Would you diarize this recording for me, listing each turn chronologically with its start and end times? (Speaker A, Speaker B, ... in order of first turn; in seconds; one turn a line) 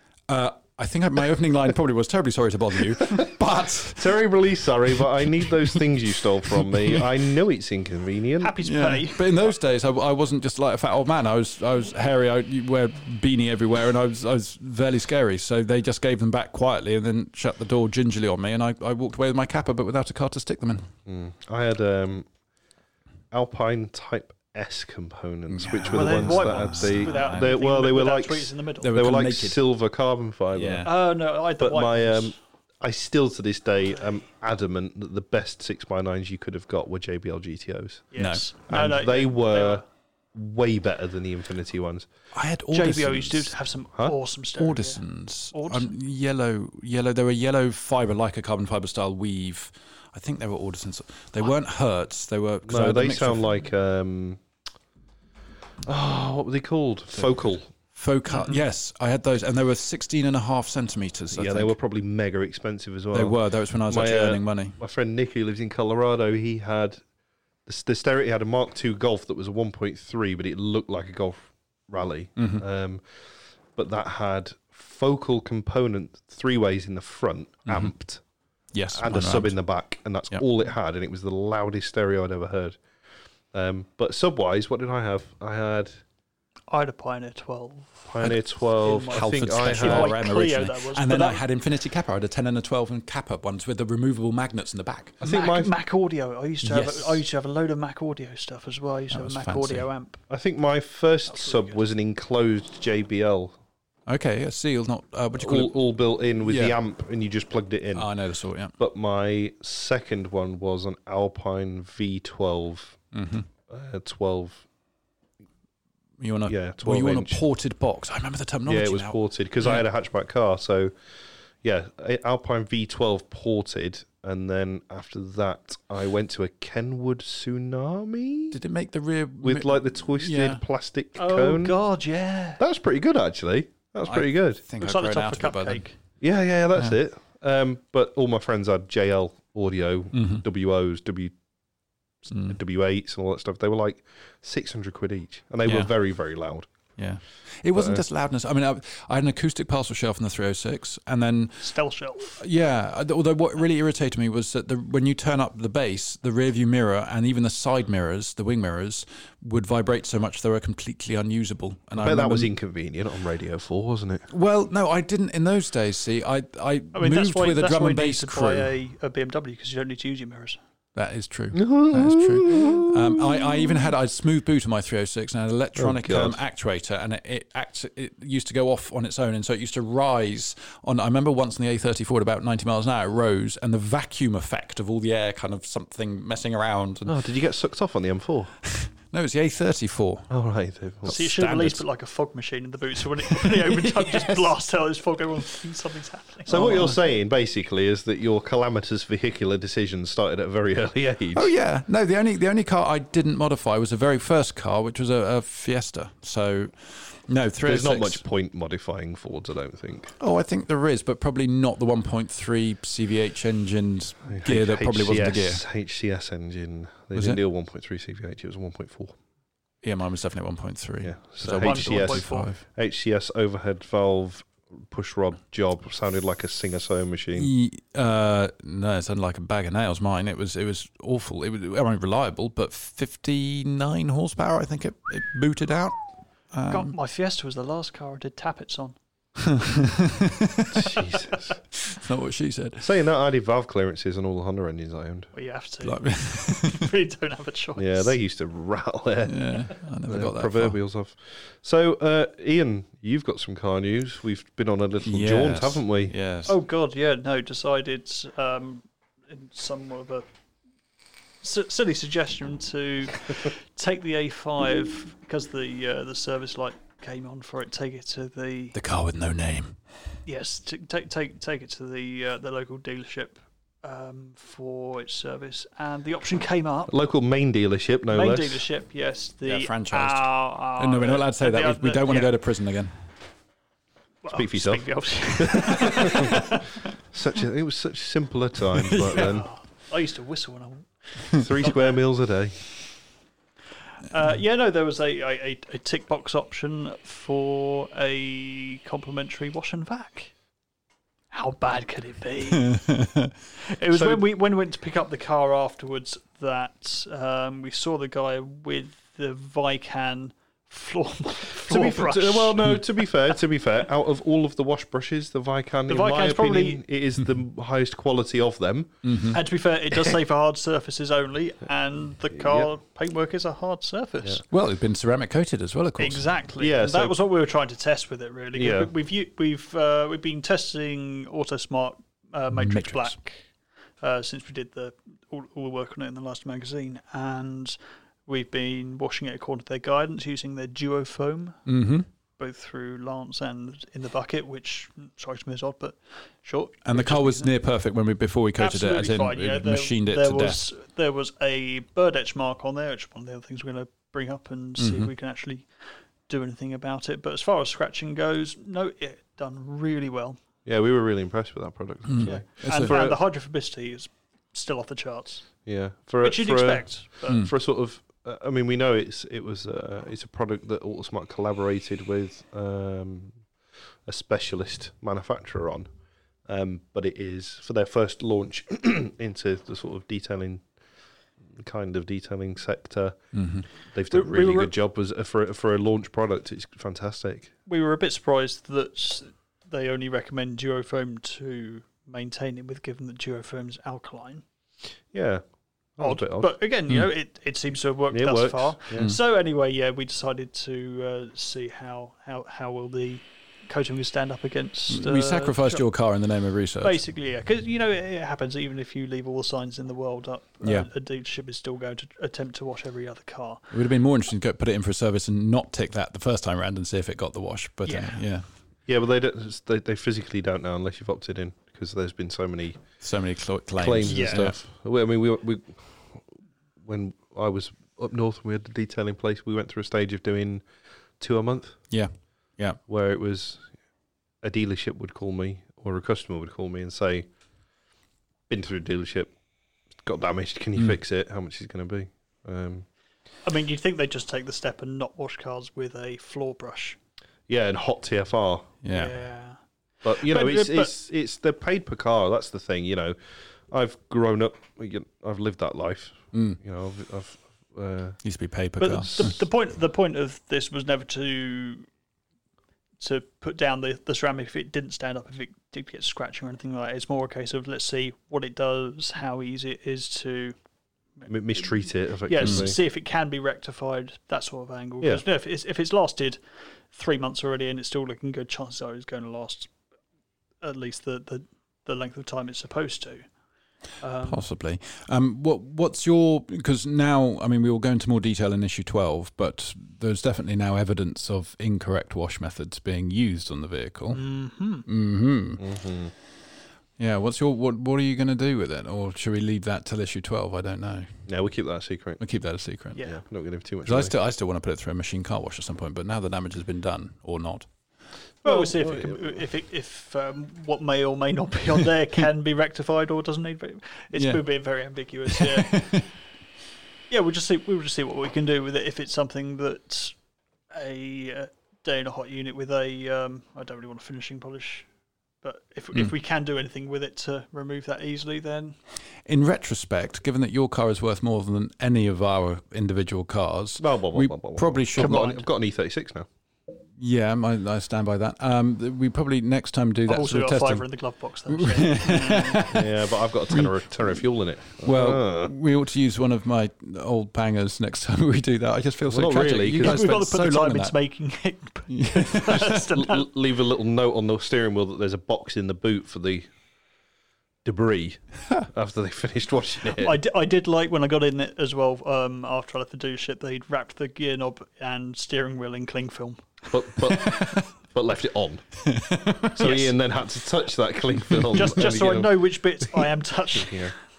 Speaker A: 0.3-4.2
Speaker B: 4.0-8.6
Speaker A: 6.5-7.0
Speaker C: 8.4-9.5
Speaker A: 8.6-20.9
Speaker B: 21.1-22.3
Speaker B: 23.3-30.9
Speaker A: 25.5-27.5
Speaker C: 25.9-28.9
Speaker A: 28.8-29.6
Speaker A: 30.5-30.9
Speaker C: 30.8-32.4
Speaker B: 31.6-38.1
Speaker C: 38.1-39.9
Speaker A: 38.2-38.5
Speaker B: 38.7-39.8
Speaker B: 40.3-42.1
Speaker A: 42.3-43.5
Speaker C: 42.7-45.0
Speaker A: 44.6-53.5
Speaker C: 45.5-46.0
Speaker B: 52.6-54.4
Speaker B: 55.9-57.7
Speaker A: 58.0-61.7
Speaker C: 58.3-58.6
Speaker B: 61.3-67.0
Speaker A: 63.1-64.8
Speaker B: 67.7-73.0
Speaker A: 72.4-72.6
Speaker B: 73.7-78.2
Speaker A: 77.7-77.9
Speaker A: 78.7-79.5
Speaker B: 78.9-82.8
Speaker B: 83.5-86.0
Speaker C: 86.7-88.1
Speaker B: 88.1-90.2
Speaker C: 88.8-91.4
Speaker A: 89.1-95.2
Speaker B: 95.2-95.7
Speaker C: 95.2-100.2
Speaker A: 96.6-97.2
Speaker A: 99.1-99.9
Speaker B: 100.3-103.6
Speaker C: 101.3-101.8
Speaker A: 104.1-105.8
Speaker B: 105.4-108.1
Speaker A: 106.4-106.8
Speaker A: 108.0-108.7
Speaker B: 108.8-113.0
Speaker A: 113.1-113.5
Speaker B: 113.7-114.7
Speaker A: 116.2-119.8
Speaker B: 116.5-117.4
Speaker B: 118.7-120.9
Speaker B: 121.6-128.6
Speaker A: 128.5-130.6
Speaker B: 129.4-131.8
Speaker C: 131.2-132.6
Speaker B: 132.6-134.6
Speaker A: 134.1-135.8
Speaker C: 134.8-135.9
Speaker B: 136.2-141.3
Speaker A: 140.1-140.4
Speaker A: 142.3-142.6
Speaker B: 142.5-146.7
Speaker A: 145.7-145.9
Speaker A: 147.0-151.8
Speaker B: 147.7-148.0
Speaker C: 151.6-152.4
Speaker A: 152.3-162.5
Speaker B: 162.0-164.3
Speaker A: 164.3-168.7
Speaker C: 166.9-170.6
Speaker A: 170.9-187.1
Speaker B: 171.5-173.9
Speaker B: 175.8-176.4
Speaker B: 187.1-188.5
Speaker A: 188.7-190.3
Speaker B: 190.3-191.2
Speaker A: 191.0-191.8
Speaker C: 191.1-197.0
Speaker A: 193.3-194.5
Speaker B: 196.5-201.5
Speaker A: 201.3-208.2
Speaker B: 207.6-210.2
Speaker A: 210.2-215.6
Speaker B: 214.3-219.2
Speaker A: 219.8-222.6
Speaker B: 221.0-227.5
Speaker C: 221.6-222.5
Speaker A: 227.4-236.0
Speaker A: 236.5-236.9
Speaker C: 236.7-239.0
Speaker A: 239.4-241.0
Speaker B: 240.7-241.6
Speaker A: 241.8-242.9
Speaker B: 242.8-245.3
Speaker C: 245.3-248.1
Speaker A: 245.8-246.9
Speaker B: 247.8-256.1
Speaker A: 249.2-250.8
Speaker A: 255.0-256.6
Speaker C: 256.5-260.3
Speaker C: 261.4-268.8
Speaker A: 268.7-269.8
Speaker C: 270.3-276.9
Speaker B: 276.9-278.6
Speaker C: 278.1-282.4
Speaker A: 279.4-282.9
Speaker C: 284.2-286.8
Speaker B: 284.3-286.6
Speaker B: 287.1-289.5
Speaker A: 288.8-289.2
Speaker C: 289.1-292.0
Speaker B: 291.3-292.6
Speaker C: 294.1-300.3
Speaker C: 301.3-302.8
Speaker A: 302.6-303.3
Speaker C: 303.6-312.6
Speaker B: 303.9-304.2
Speaker B: 311.6-318.9
Speaker C: 315.9-316.8
Speaker A: 319.0-319.4
Speaker C: 319.3-324.4
Speaker B: 322.3-322.7
Speaker A: 324.5-326.3
Speaker C: 326.0-333.5
Speaker B: 326.6-327.1
Speaker B: 328.5-328.9
Speaker A: 332.5-333.2
Speaker C: 334.0-341.6
Speaker A: 341.7-342.1
Speaker C: 342.4-347.5
Speaker A: 346.9-350.6
Speaker C: 348.6-355.7
Speaker A: 354.8-355.1
Speaker C: 356.3-360.4
Speaker B: 360.6-363.2
Speaker A: 362.1-362.9
Speaker C: 362.2-365.5
Speaker B: 365.7-373.4
Speaker C: 366.2-367.4
Speaker B: 374.1-375.9
Speaker B: 376.5-380.7
Speaker B: 381.5-383.2
Speaker A: 383.4-383.7
Speaker B: 383.9-387.5
Speaker C: 384.1-384.7
Speaker C: 387.7-394.4
Speaker B: 395.1-395.4
Speaker B: 396.0-396.5
Speaker C: 396.0-405.8
Speaker B: 398.1-399.1
Speaker A: 404.9-407.0
Speaker C: 406.8-413.6
Speaker A: 410.6-410.9
Speaker A: 413.7-418.4
Speaker C: 417.9-418.2
Speaker B: 418.9-422.8
Speaker A: 423.0-424.6
Speaker B: 423.8-426.3
Speaker C: 424.0-424.5
Speaker B: 426.8-430.7
Speaker B: 431.2-431.8
Speaker A: 431.9-432.8
Speaker B: 432.9-433.7
Speaker B: 434.4-437.3
Speaker B: 438.5-439.3
Speaker B: 440.0-442.9
Speaker C: 443.5-447.0
Speaker B: 447.5-448.7
Speaker A: 448.8-449.1
Speaker C: 448.9-449.6
Speaker B: 450.0-453.2
Speaker C: 450.1-450.9
Speaker B: 453.7-458.2
Speaker A: 456.3-456.6
Speaker A: 458.2-459.4
Speaker C: 458.8-461.9
Speaker B: 459.0-459.3
Speaker C: 463.0-470.6
Speaker C: 471.2-471.7
Speaker B: 471.3-472.8
Speaker C: 472.2-476.4
Speaker A: 472.4-472.7
Speaker C: 476.9-479.7
Speaker C: 480.6-483.3
Speaker C: 484.0-484.4
Speaker A: 484.3-494.2
Speaker C: 494.1-494.9
Speaker A: 494.9-495.6
Speaker B: 495.6-496.1
Speaker A: 497.0-501.1
Speaker B: 501.3-502.2
Speaker A: 502.2-503.0
Speaker C: 502.9-503.2
Speaker B: 503.0-504.1
Speaker A: 503.9-507.7
Speaker B: 508.4-509.4
Speaker C: 508.4-516.1
Speaker A: 514.1-514.4
Speaker A: 515.3-516.1
Speaker C: 517.1-520.2
Speaker C: 520.7-524.9
Speaker C: 525.4-528.8
Speaker A: 529.3-535.3
Speaker B: 533.8-536.3
Speaker C: 535.0-535.4
Speaker A: 537.0-540.9
Speaker C: 540.1-542.7
Speaker A: 541.5-543.0
Speaker B: 542.7-545.5
Speaker A: 543.5-543.8
Speaker A: 544.8-551.0
Speaker B: 549.1-550.0
Speaker C: 549.8-553.3
Speaker A: 551.9-552.8
Speaker B: 552.9-556.5
Speaker B: 557.6-560.2
Speaker C: 560.0-567.1
Speaker B: 566.7-568.6
Speaker A: 567.2-567.7
Speaker A: 568.9-569.5
Speaker B: 569.5-573.9
Speaker C: 569.6-569.9
Speaker C: 571.5-573.9